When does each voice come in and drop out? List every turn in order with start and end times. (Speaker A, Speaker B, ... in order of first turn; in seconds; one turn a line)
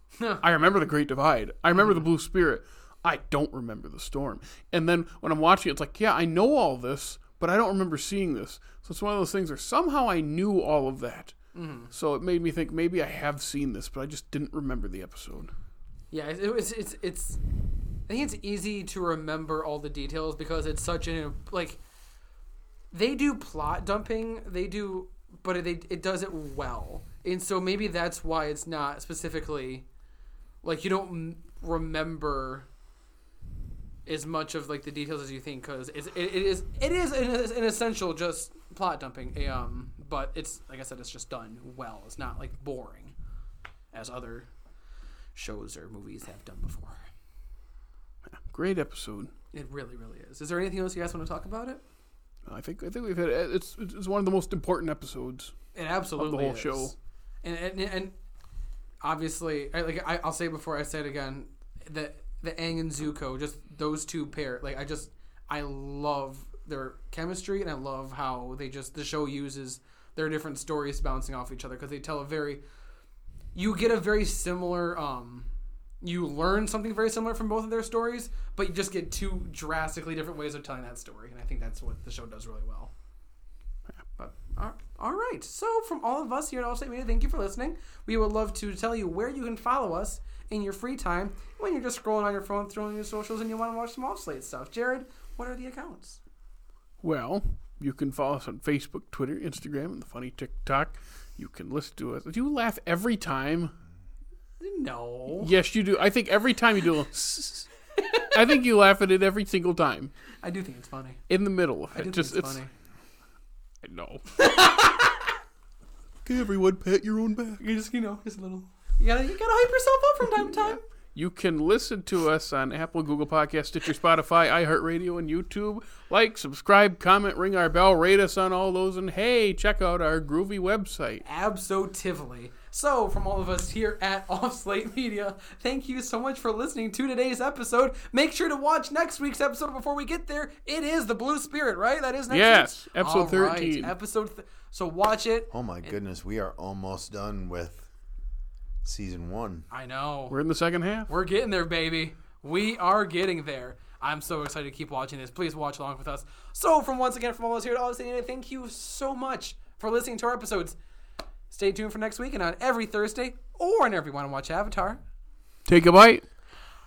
Speaker A: 0.2-0.4
Speaker B: 0.4-11.3
Speaker A: 11.5-11.9
Speaker B: 11.9-15.5
Speaker A: 16.1-17.4
Speaker A: 18.1-21.8
Speaker A: 22.9-29.9
Speaker A: 30.6-32.7
Speaker A: 34.1-43.2
Speaker A: 43.9-44.5
Speaker A: 45.4-47.0
Speaker B: 48.3-49.3
Speaker A: 49.5-51.8
Speaker B: 52.5-55.5
Speaker A: 55.8-58.1
Speaker B: 56.2-57.0
Speaker A: 59.0-72.6
Speaker A: 73.5-75.5
Speaker A: 76.0-82.9
Speaker A: 84.2-96.2
Speaker B: 97.0-103.8
Speaker A: 104.6-105.5
Speaker B: 105.3-107.7
Speaker A: 108.0-108.3
Speaker B: 108.2-110.1
Speaker A: 110.4-111.2
Speaker B: 111.3-112.6
Speaker A: 111.9-112.7
Speaker B: 113.8-114.4
Speaker A: 114.4-115.2
Speaker B: 116.2-117.6
Speaker A: 117.6-120.8
Speaker B: 120.7-131.2
Speaker A: 131.2-146.0
Speaker B: 142.3-143.9
Speaker C: 145.5-147.9
Speaker C: 148.8-149.7
Speaker A: 149.7-150.4
Speaker B: 150.3-151.1
Speaker A: 151.1-160.8
Speaker A: 161.5-165.0
Speaker B: 165.7-166.2